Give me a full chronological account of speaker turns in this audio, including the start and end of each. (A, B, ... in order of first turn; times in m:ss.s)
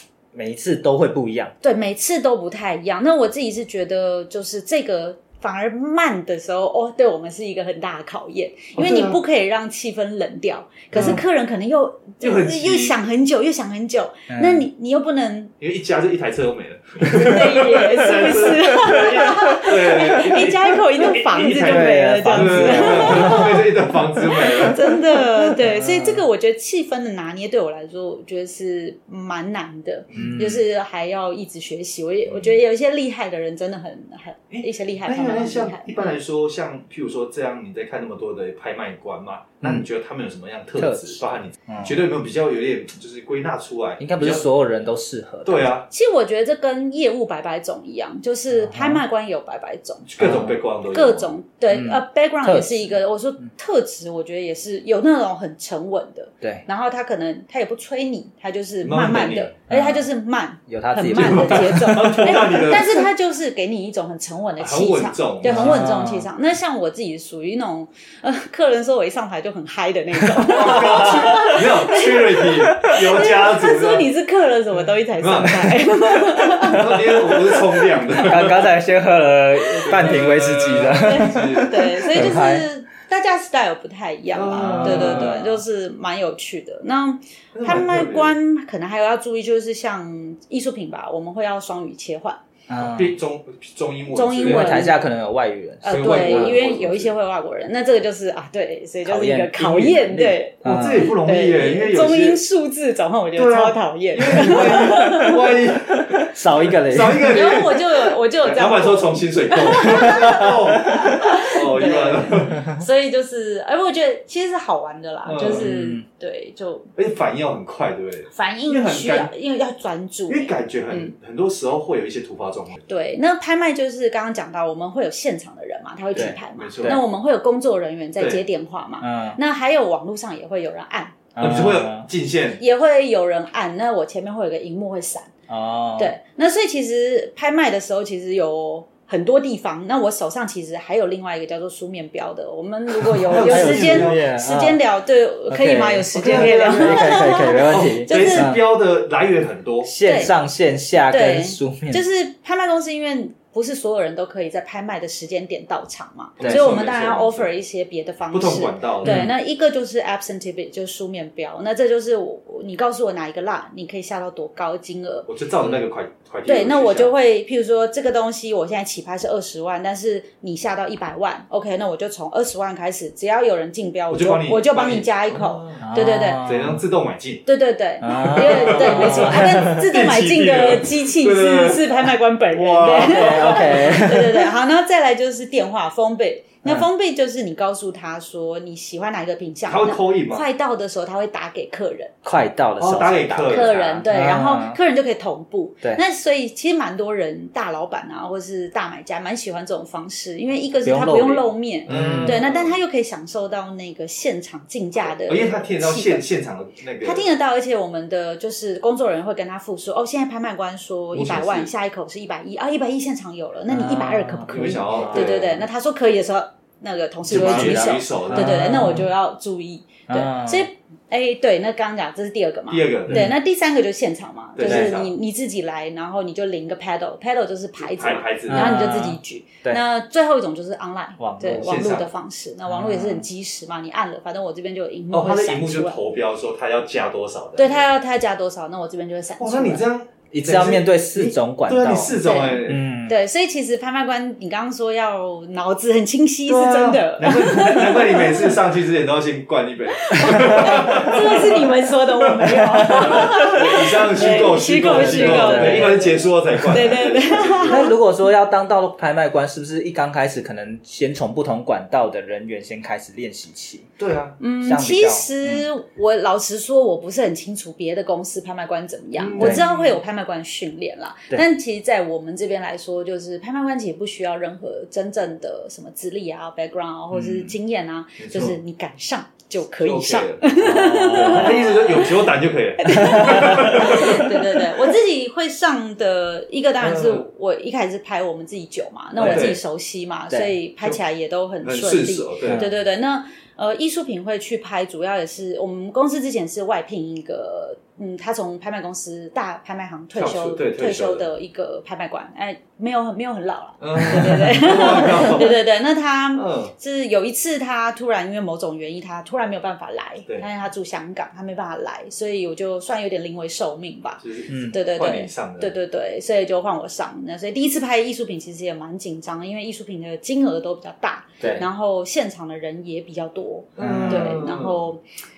0:00.3-0:01.5 A
0:01.6-0:15.5 B
0:08.7-0:09.2 C
0:10.9-0:11.2 C
0:10.9-0:11.2 A
0:12.2-0:12.9 C
0:14.3-0:14.7 A
0:15.6-0:25.0 C
0:17.1-0:36.2 B
0:21.5-0:23.6 A
0:25.6-0:26.2 A
0:30.1-0:30.4 C
0:30.1-0:30.6 A
0:34.5-0:44.4 C
0:40.8-0:41.9 A
0:44.0-0:45.7 A
0:45.4-0:45.9 C
0:45.9-1:18.2 B
0:48.5-0:49.0 A
0:50.0-0:51.3 C
0:50.2-0:50.6 A
0:51.7-0:53.5 A
0:58.8-0:59.5 C
0:59.7-1:00.1 A
1:00.7-1:02.4 A
1:01.1-1:03.1 C
1:04.6-1:05.8 C
1:05.4-1:06.3 A
1:10.4-1:14.1 C
1:10.8-1:11.5 A
1:12.6-1:12.9 A
1:15.2-1:15.9 C
1:16.4-1:18.7 C
1:18.1-1:22.7 A
1:19.8-1:22.3 C
1:21.0-1:32.4 B
1:24.3-1:25.4 C
1:24.5-1:25.6 A
1:27.5-1:28.3 C
1:32.7-1:33.1 A
1:32.8-1:34.8 C
1:34.1-1:35.0 B
1:34.4-1:36.6 A
1:35.8-1:45.6 B
1:35.9-1:37.1 C
1:39.0-1:41.1 A
1:40.6-1:42.4 C
1:43.4-1:52.7 C
1:46.3-1:47.4 A
1:47.2-1:56.9 B
1:52.5-1:52.8 A
1:55.2-1:55.7 C
1:55.5-1:56.0 A
1:57.0-1:59.3 C
1:58.3-2:01.1 B
2:00.3-2:02.8 C
2:02.9-2:11.4 B
2:06.1-2:07.0 A
2:06.6-2:07.0 C
2:08.2-2:08.4 C
2:09.0-2:09.4 A
2:11.3-2:12.1 A
2:11.4-2:12.6 C
2:12.6-2:15.3 B
2:15.5-2:16.1 A
2:16.0-2:28.6 B
2:23.2-2:24.2 C
2:23.3-2:24.8 A
2:25.5-2:28.6 A
2:26.1-2:27.2 C
2:27.7-2:29.9 C
2:29.8-2:32.0 A
2:30.0-2:30.3 B
2:31.1-2:45.3 B
2:36.4-2:37.5 C
2:36.4-2:36.6 A
2:38.3-2:39.3 C
2:39.0-2:39.3 A
2:45.3-2:47.1 C
2:46.4-2:56.5 B
2:54.1-2:57.4 C
2:55.8-2:56.8 A
2:57.4-3:12.2 B
2:58.0-2:59.8 A
2:58.3-3:04.0 C
3:03.0-3:04.5 A
3:09.7-3:10.4 C
3:12.2-3:14.8 A
3:12.8-3:14.0 C
3:13.4-3:26.3 B
3:20.8-3:22.4 A
3:21.9-3:22.8 C
3:25.1-3:27.3 C
3:27.0-3:56.0 B
3:31.1-3:31.7 C
3:33.7-3:35.3 A
3:34.5-3:35.6 C
3:37.3-3:39.0 C
3:37.3-3:39.1 A
3:40.1-3:40.7 A
3:42.7-3:43.3 C
3:43.1-3:43.4 A
3:44.6-3:45.1 C
3:44.6-3:45.0 A
3:47.8-3:48.9 C
3:48.5-3:49.8 A
3:51.2-3:51.8 A
3:51.5-3:52.1 C
3:52.7-3:53.2 A
3:55.1-3:57.9 C
3:57.6-3:59.8 B
3:59.4-4:02.8 C
4:00.3-4:03.2 A
4:02.1-4:08.6 B
4:06.5-4:11.7 C
4:10.0-4:18.0 B
4:10.5-4:11.1 A
4:12.2-4:17.9 C
4:12.5-4:13.6 A
4:14.3-4:16.9 A
4:17.6-4:23.9 A
4:24.0-4:24.4 C
4:24.4-5:25.0 B
4:24.6-4:25.6 A
4:29.2-4:30.0 C
4:29.4-4:29.6 A
4:38.2-4:38.6 C
4:39.8-4:40.5 C
4:40.6-4:41.7 A
4:41.1-4:44.6 C
4:42.9-4:43.8 A
4:46.8-4:47.2 C
4:49.2-4:49.6 A
4:49.2-4:49.6 C
4:50.3-4:50.6 A
4:51.6-4:52.6 C
4:52.5-4:52.7 A
5:00.1-5:01.3 C
5:03.8-5:05.6 C
5:06.4-5:06.7 C
5:14.2-5:15.7 C
5:14.5-5:14.8 A
5:21.4-5:21.6 A
5:23.8-5:24.8 C
5:23.8-5:24.4 A